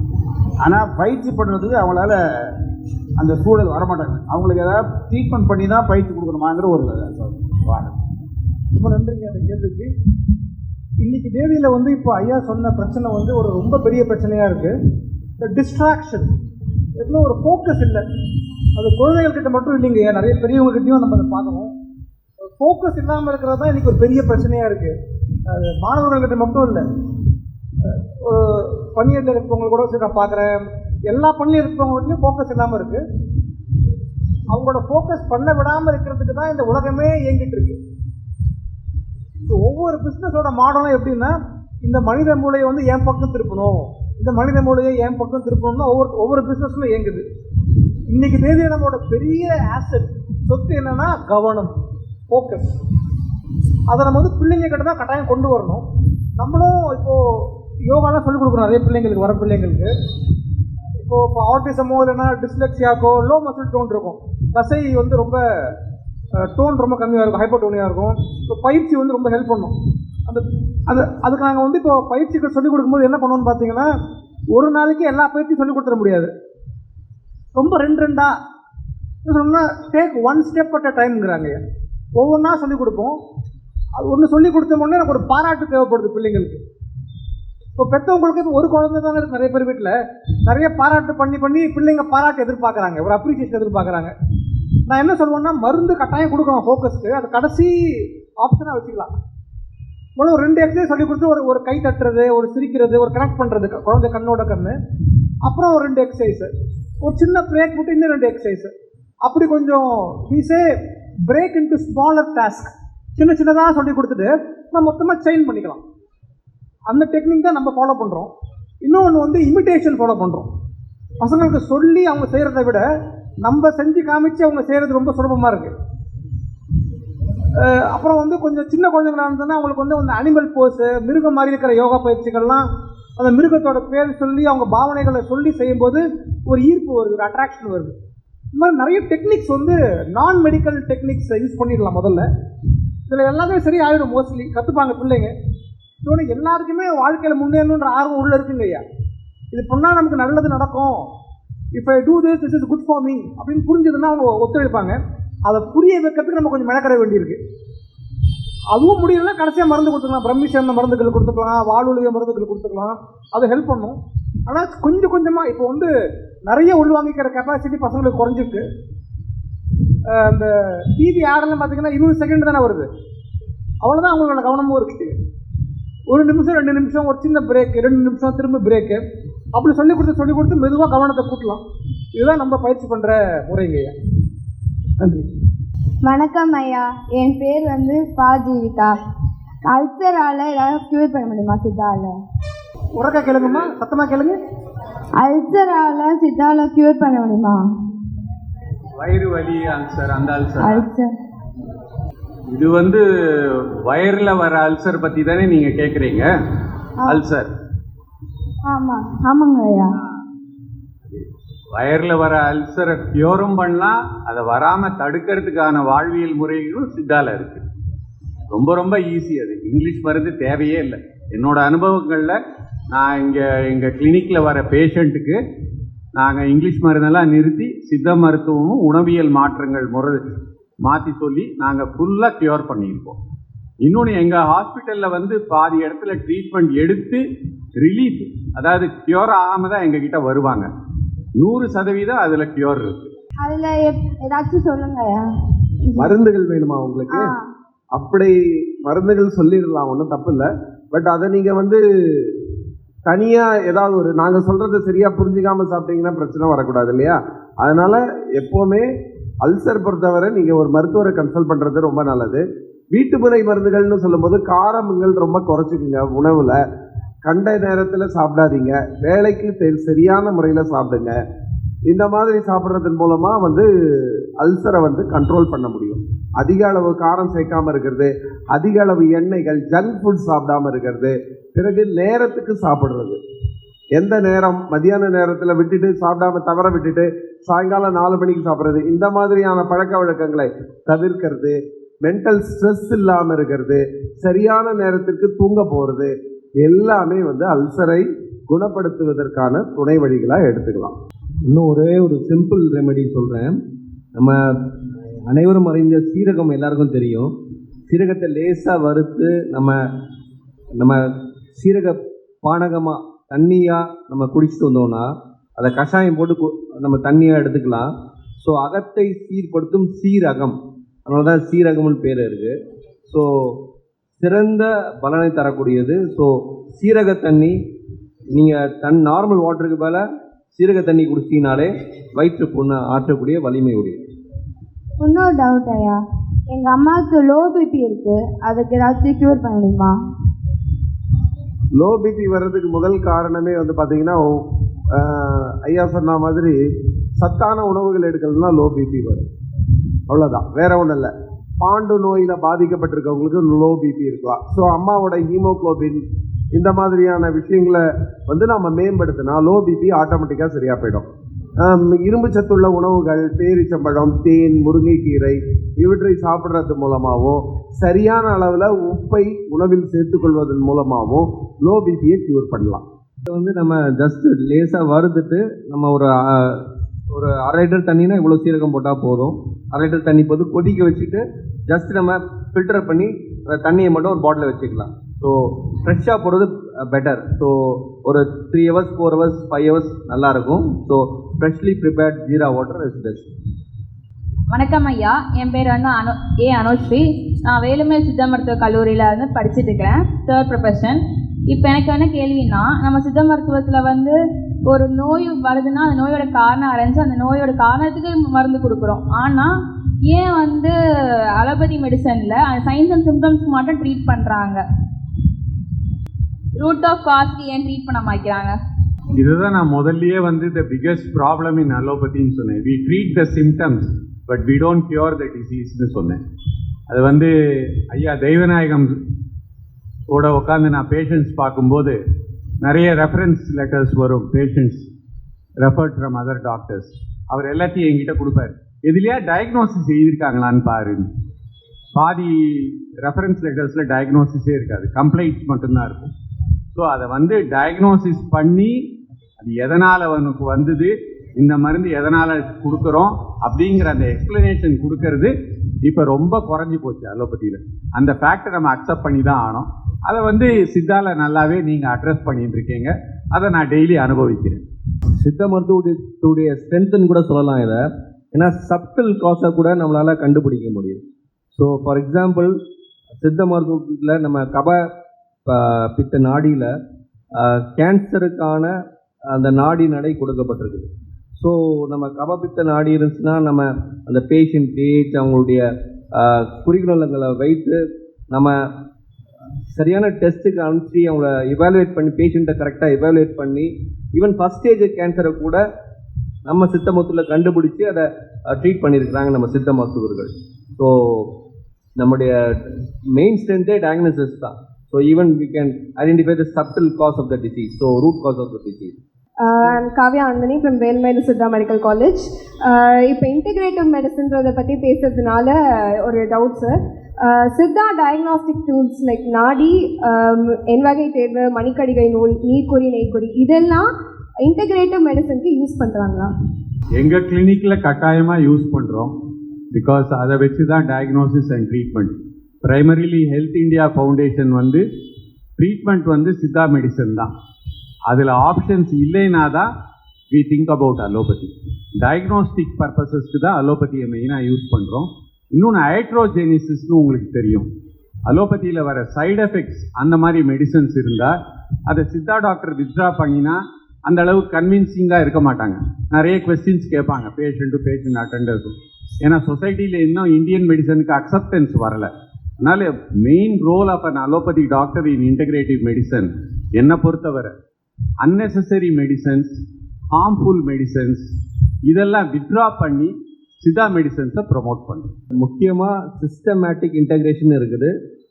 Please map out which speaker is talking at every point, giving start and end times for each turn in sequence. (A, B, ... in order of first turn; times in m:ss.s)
0:00.6-0:02.1 A
0:03.2-0:08.0 A
0:08.7-0:09.9 B
0:11.0-0:14.8 B
0:15.4-0:16.3 B
0:17.0-0:18.0 B
0:18.8-0:21.7 B
0:22.6-0:24.9 B
0:25.5-0:26.8 B
0:27.8-0:33.0 B
0:34.5-0:37.8 B
0:39.4-0:47.2 B
0:48.1-0:51.8 B
0:52.3-0:52.8 B
0:53.9-0:55.8 B
0:56.4-0:59.9 B
1:01.0-1:05.4 B
1:06.4-1:09.7 B
1:10.2-1:13.9 B
1:14.5-1:16.3 B
1:17.5-1:18.3 B
1:19.2-1:21.6 B
1:22.2-1:23.2 B
1:24.0-1:26.6 B
1:27.8-1:34.1 B
1:34.9-1:39.1 B
1:40.2-1:44.8 B
1:45.4-1:46.5 B
1:47.0-1:50.7 B
1:51.3-1:55.8 B
1:56.9-1:58.3 B
1:58.8-2:00.5 B
2:01.2-2:02.8 B
2:03.4-2:05.7 B
2:07.6-2:12.6 B
2:13.2-2:17.9 B
2:18.5-2:22.2 B
2:23.1-2:25.3 B
2:26.0-2:28.8 B
2:29.5-2:31.1 B
2:31.7-2:37.4 B
2:38.7-2:45.9 B
2:46.4-2:48.6 B
2:50.1-2:52.9 B
2:53.8-2:55.1 B
2:56.1-2:59.0 B
2:59.5-3:01.6 B
3:02.2-3:03.9 B
3:06.0-3:08.9 C
3:09.7-3:12.1 C
3:13.0-3:14.4 B
3:15.2-3:17.6 C
3:19.0-3:20.8 D
3:20.6-3:21.1 C
3:22.5-3:23.0 D
3:23.8-3:26.3 D
3:27.1-3:27.5 D
3:28.7-3:30.0 C
3:31.7-3:37.6 D
3:38.5-3:42.4 D
3:42.9-3:45.4 D
3:46.2-3:50.2 D
3:50.8-3:53.2 D
3:53.8-3:57.2 D
3:57.8-4:00.7 D
4:01.4-4:03.1 D
4:03.4-4:05.2 C
4:06.0-4:07.3 E
4:07.1-4:07.5 C
4:07.9-4:12.4 E
4:13.1-4:18.9 E
4:19.4-4:26.6 E
4:27.2-4:31.2 E
4:31.9-4:43.2 E
4:43.9-5:00.9 E
5:01.4-5:03.6 F
5:04.1-5:04.6 F
5:05.2-5:07.3 F
5:07.9-5:09.8 F
5:10.8-5:22.5 F
5:23.0-5:23.6 F
5:24.2-5:27.6 F
5:28.3-5:30.0 F
5:30.5-5:34.0 F
5:35.0-5:36.0 C
5:36.5-5:39.9 C
5:41.8-5:46.6 E
5:47.2-5:49.3 E
5:50.1-6:01.1 E
6:01.6-6:12.8 E
6:13.3-6:33.3 F
6:34.5-6:44.2 G
6:44.7-6:49.5 G
6:50.1-6:50.7 G
6:51.4-6:54.6 G
6:56.6-6:58.6 G
6:59.2-7:06.2 D
7:06.9-7:08.9 D
7:10.1-7:12.0 D
7:12.6-7:14.8 D
7:15.6-7:21.1 D
7:21.9-7:26.1 D
7:26.7-7:28.8 D
7:29.4-7:35.3 D
7:35.8-7:44.6 D
7:45.2-7:47.8 F
7:48.3-7:52.6 F
7:53.2-7:54.8 F
7:55.4-7:56.7 F
7:57.3-7:58.7 F
7:59.3-8:07.8 F
8:08.3-8:08.6 F
8:09.7-8:15.6 F
8:16.4-8:21.4 F
8:22.0-8:29.0 F
8:29.4-8:43.9 H
8:44.4-8:46.3 H
8:47.0-8:49.1 D
8:49.7-8:54.8 D
8:55.6-8:57.3 D
8:58.1-8:59.7 D
9:00.3-9:07.7 D
9:08.3-9:11.4 D
9:11.9-9:22.1 D
9:22.6-9:27.5 D
9:28.2-9:29.6 D
9:30.1-9:31.3 D
9:31.9-9:35.1 D
9:35.3-9:37.9 F